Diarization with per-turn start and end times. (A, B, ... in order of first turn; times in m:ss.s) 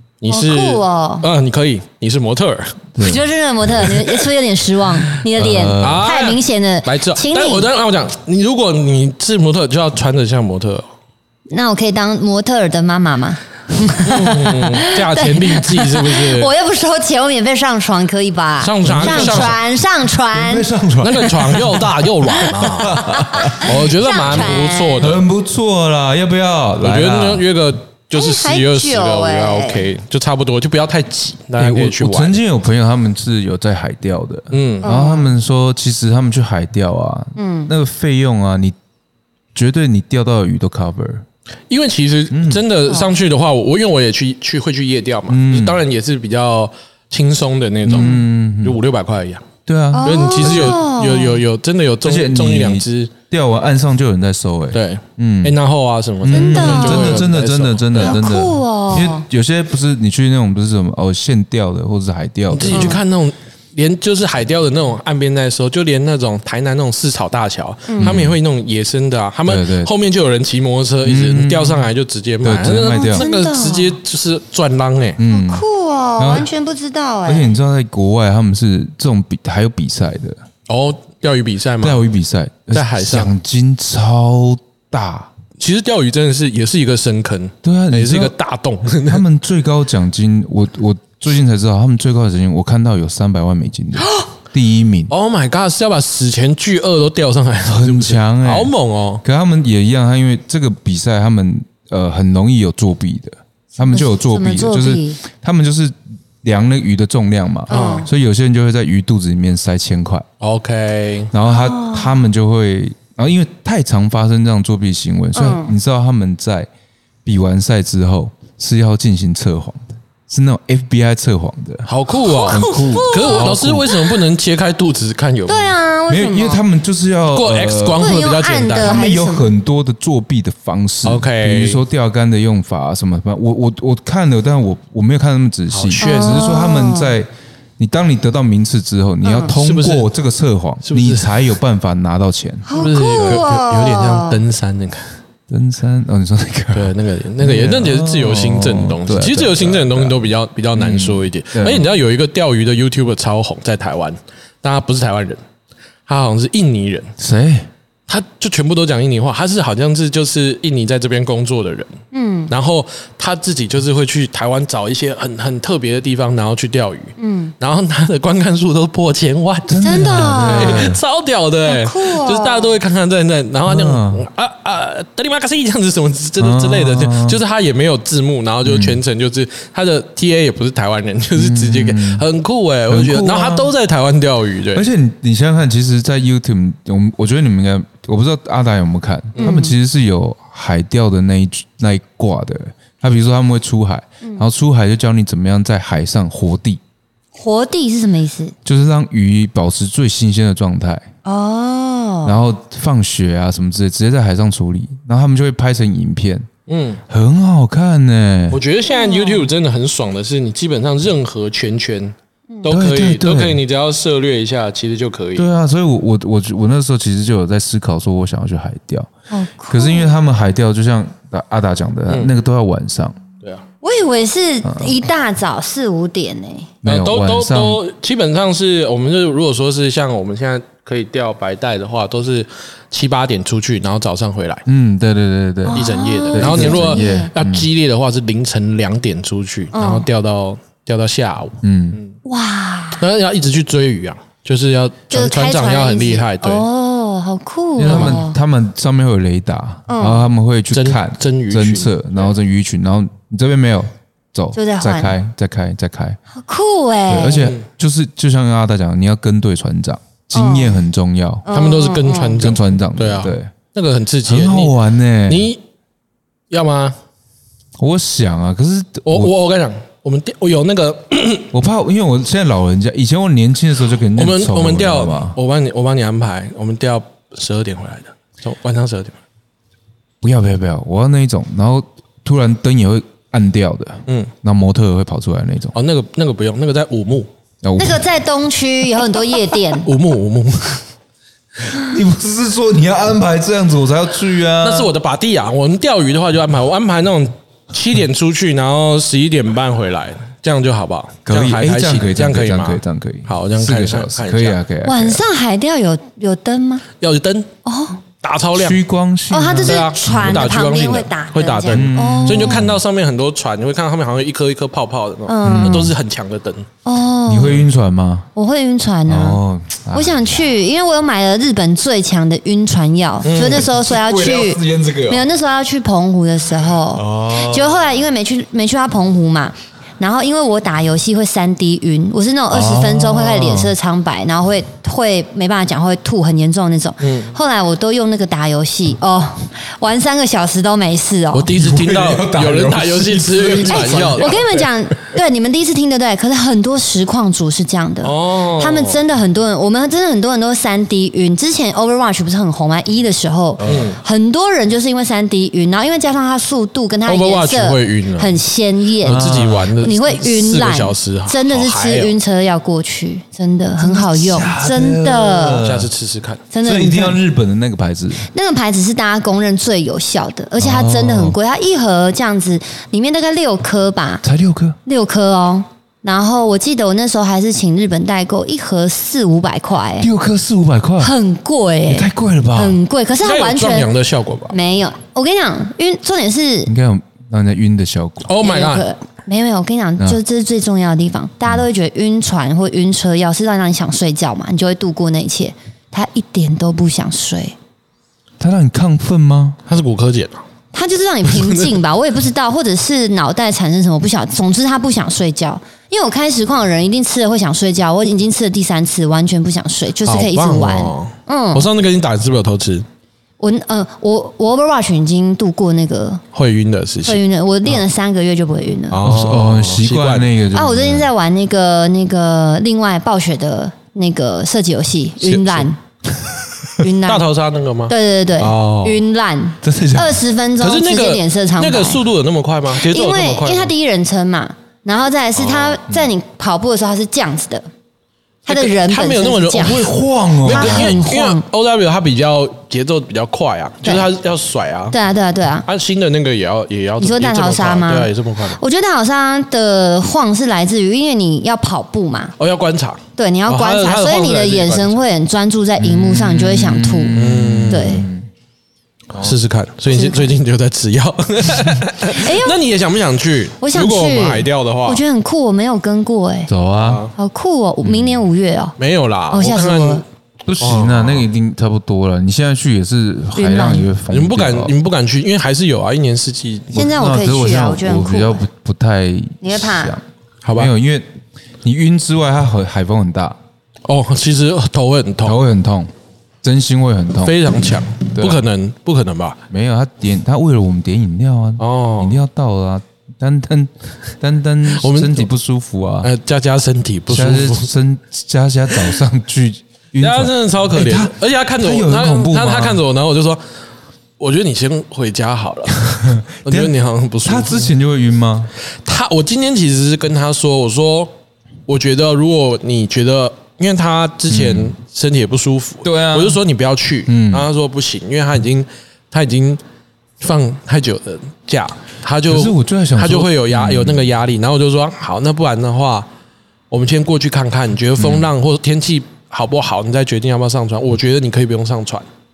0:00.2-0:02.8 A
0:00.3-0:01.2 B
0:03.0-0:03.2 C
0:03.0-0:07.7 B
0:05.3-0:06.1 C
0:05.8-0:10.8 A
0:11.5-0:20.7 B
0:14.0-0:16.5 A
0:18.6-0:19.6 A
0:18.8-0:19.6 C
0:20.3-0:23.8 C
0:21.0-0:25.2 A
0:22.8-0:25.1 B
0:24.3-0:27.4 C
0:26.8-0:32.4 A
0:28.1-0:29.9 B
0:31.6-0:38.8 C
0:34.5-0:34.9 A
0:34.8-0:35.3 B
0:37.4-0:37.7 B
0:39.5-0:41.2 C
0:41.7-0:49.5 A
0:42.3-0:42.6 C
0:45.3-0:45.8 C
0:47.8-0:48.8 C
0:47.9-0:48.2 B
0:49.6-0:50.8 C
0:49.9-0:51.4 B
0:50.0-0:53.1 A
0:52.0-0:55.6 C
0:54.7-0:58.2 A
0:56.2-1:03.0 C
0:56.3-0:57.2 B
0:58.0-0:59.2 B
1:02.5-1:15.2 A
1:02.7-1:03.0 B
1:07.9-1:08.2 B
1:08.0-1:08.4 C
1:09.4-1:09.9 C
1:11.0-1:11.9 C
1:12.4-1:13.2 C
1:12.9-1:14.0 B
1:15.2-1:15.6 C
1:15.3-1:17.5 B
1:16.2-1:16.5 C
1:17.2-1:20.4 C
1:20.7-1:22.0 A
1:21.8-1:25.3 C
1:22.7-1:23.3 A
1:25.6-1:29.2 A
1:27.6-1:28.3 C
1:29.0-1:35.1 C
1:35.1-1:39.2 A
1:37.7-1:38.7 C
1:39.2-1:50.2 C
1:43.8-1:45.2 B
1:47.7-1:48.1 B
1:47.7-1:48.1 A
1:50.4-1:51.3 A
1:51.3-1:56.7 C
1:51.4-1:52.2 B
1:55.3-1:55.7 B
1:57.2-2:03.9 C
2:01.8-2:05.7 A
2:02.3-2:04.2 B
2:05.5-2:06.6 B
2:06.1-2:08.1 C
2:07.3-2:09.0 A
2:07.9-2:09.5 B
2:08.8-2:22.7 C
2:11.0-2:11.8 A
2:15.7-2:16.5 A
2:16.0-2:17.2 B
2:19.4-2:20.1 A
2:20.8-2:21.4 A
2:22.7-2:24.4 B
2:22.7-2:25.1 A
2:25.5-2:30.2 C
2:26.7-2:35.4 A
2:30.7-2:31.8 C
2:36.1-2:37.1 A
2:37.2-2:37.7 C
2:38.1-2:42.0 A
2:42.1-2:42.5 B
2:42.5-3:04.9 A
2:47.2-2:47.5 B
2:49.7-2:51.0 C
2:49.8-2:50.9 B
2:51.6-2:52.8 B
2:53.7-2:54.2 C
2:56.4-2:57.4 C
2:58.6-2:59.0 C
3:01.4-3:02.2 C
3:02.9-3:03.7 C
3:04.7-3:16.8 C
3:09.4-3:09.7 B
3:17.3-3:18.5 B
3:18.6-3:21.1 C
3:21.2-3:22.4 B
3:22.2-3:26.5 C
3:26.7-3:27.0 A
3:27.1-3:28.6 C
3:28.5-3:35.5 A
3:28.9-3:29.5 B
3:32.7-3:33.6 C
3:35.4-3:39.1 C
3:39.3-3:40.1 B
3:39.7-3:43.2 C
3:43.8-3:46.7 B
3:44.6-3:44.9 C
3:46.8-3:47.8 C
3:46.8-3:54.6 A
3:54.6-3:57.7 C
3:55.6-3:57.3 B
3:55.7-4:02.2 A
3:59.7-4:00.1 B
4:01.6-4:02.0 C
4:02.2-4:03.0 B
4:03.0-4:06.6 A
4:05.1-4:08.4 B
4:07.8-4:16.2 C
4:07.8-4:08.2 A
4:09.9-4:10.2 B
4:10.7-4:12.3 A
4:14.5-4:15.1 B
4:16.3-4:17.5 B
4:17.1-4:21.5 C
4:20.3-4:20.8 B
4:21.4-4:22.4 B
4:21.5-4:24.7 A
4:22.4-4:23.5 C
4:24.2-4:25.5 C
4:25.3-4:25.6 A
4:26.5-4:27.0 A
4:27.8-4:29.3 C
4:29.0-4:31.5 A
4:31.5-4:35.4 C
4:34.2-4:39.2 A
4:40.2-4:45.7 C
4:45.7-4:47.3 A
4:47.6-4:48.0 C
4:47.8-4:49.9 B
4:49.8-4:50.8 A
4:51.7-4:54.9 C
4:54.6-5:04.6 A
5:01.2-5:05.2 C
5:04.8-5:06.8 B
5:07.0-5:07.5 A
5:07.6-5:08.0 B
5:08.2-5:08.8 A
5:08.5-5:10.5 C
5:09.3-5:12.7 B
5:09.6-5:16.7 A
5:11.7-5:12.8 C
5:15.3-5:16.0 B
5:15.4-5:15.9 C
5:16.8-5:17.6 B
5:17.2-5:18.3 C
5:18.4-5:19.4 B
5:19.0-5:20.4 C
5:19.9-5:41.5 B
5:23.2-5:23.7 A
5:23.4-5:25.2 C
5:26.9-5:28.0 C
5:32.5-5:33.7 C
5:37.0-5:37.4 A
5:41.3-5:44.6 A
5:41.5-5:44.5 C
5:43.5-6:05.6 B
5:48.0-5:49.0 A
5:53.6-5:54.0 A
5:57.0-5:58.4 A
5:59.0-6:02.1 A
5:59.0-5:59.7 C
6:03.8-6:05.9 C
6:05.6-6:06.4 A
6:06.5-6:07.2 B
6:06.6-6:08.3 C
6:08.3-6:14.2 B
6:10.6-6:11.4 C
6:14.2-6:14.8 C
6:14.8-6:20.1 B
6:20.0-6:21.1 C
6:21.0-6:23.9 B
6:21.9-6:22.8 C
6:23.2-6:24.5 A
6:24.5-6:26.7 B
6:26.6-6:28.3 C
6:28.2-6:28.9 A
6:28.4-6:37.6 B
6:38.4-6:39.6 C
6:39.7-6:40.4 A
6:40.7-6:51.7 B
6:41.3-6:41.7 A
6:50.0-6:52.8 A
6:53.4-6:56.2 B
6:56.3-6:57.2 A
6:57.0-6:59.0 B
6:58.9-7:00.3 A
6:59.0-7:01.1 C
7:00.5-7:05.8 B
7:05.3-7:05.6 C
7:06.8-7:07.2 B
7:07.0-7:09.0 A
7:07.9-7:12.0 B
7:09.6-7:10.2 C
7:10.6-7:13.7 A
7:12.7-7:17.6 B
7:15.4-7:15.9 A
7:18.4-7:21.4 B
7:18.5-7:19.8 A
7:19.5-7:21.0 C
7:20.4-7:25.0 A
7:24.9-7:25.6 B
7:25.6-7:28.6 A
7:27.0-7:32.3 B
7:32.4-7:35.0 A
7:33.2-7:38.0 B
7:35.8-7:38.3 C
7:37.1-7:38.0 A
7:39.2-7:45.0 A
7:39.9-7:40.3 B
7:42.1-7:42.6 B
7:43.6-7:46.5 B
7:46.5-7:47.1 C
7:46.8-7:47.1 A
7:47.2-7:48.8 B
7:47.8-7:48.2 C
7:48.8-7:50.0 A
7:49.3-7:50.0 B
7:50.4-7:54.7 C
7:50.6-7:51.2 A
7:53.3-7:53.9 B
7:54.1-7:56.8 A
7:56.7-7:58.4 B
7:56.7-8:00.0 C
7:59.4-8:00.0 B
8:00.4-8:00.7 A
8:00.5-8:01.1 C
8:01.6-8:03.4 C
8:03.9-8:05.4 A
8:05.2-8:05.9 C
8:06.4-8:08.4 C
8:07.2-8:09.4 A
8:09.5-8:16.1 C
8:11.6-8:12.2 A
8:14.7-8:15.3 A
8:16.0-8:17.7 A
8:17.1-8:22.8 C
8:20.0-8:23.4 A
8:24.2-8:27.7 A
8:26.4-8:26.7 C
8:27.2-8:28.5 C
8:28.8-8:31.1 A
8:31.7-8:39.6 A
8:34.3-8:34.7 C
8:35.8-8:36.4 C
8:37.1-8:37.5 C
8:40.2-8:46.1 A
8:42.3-8:44.1 C
8:46.7-8:52.0 A
8:48.0-8:48.3 C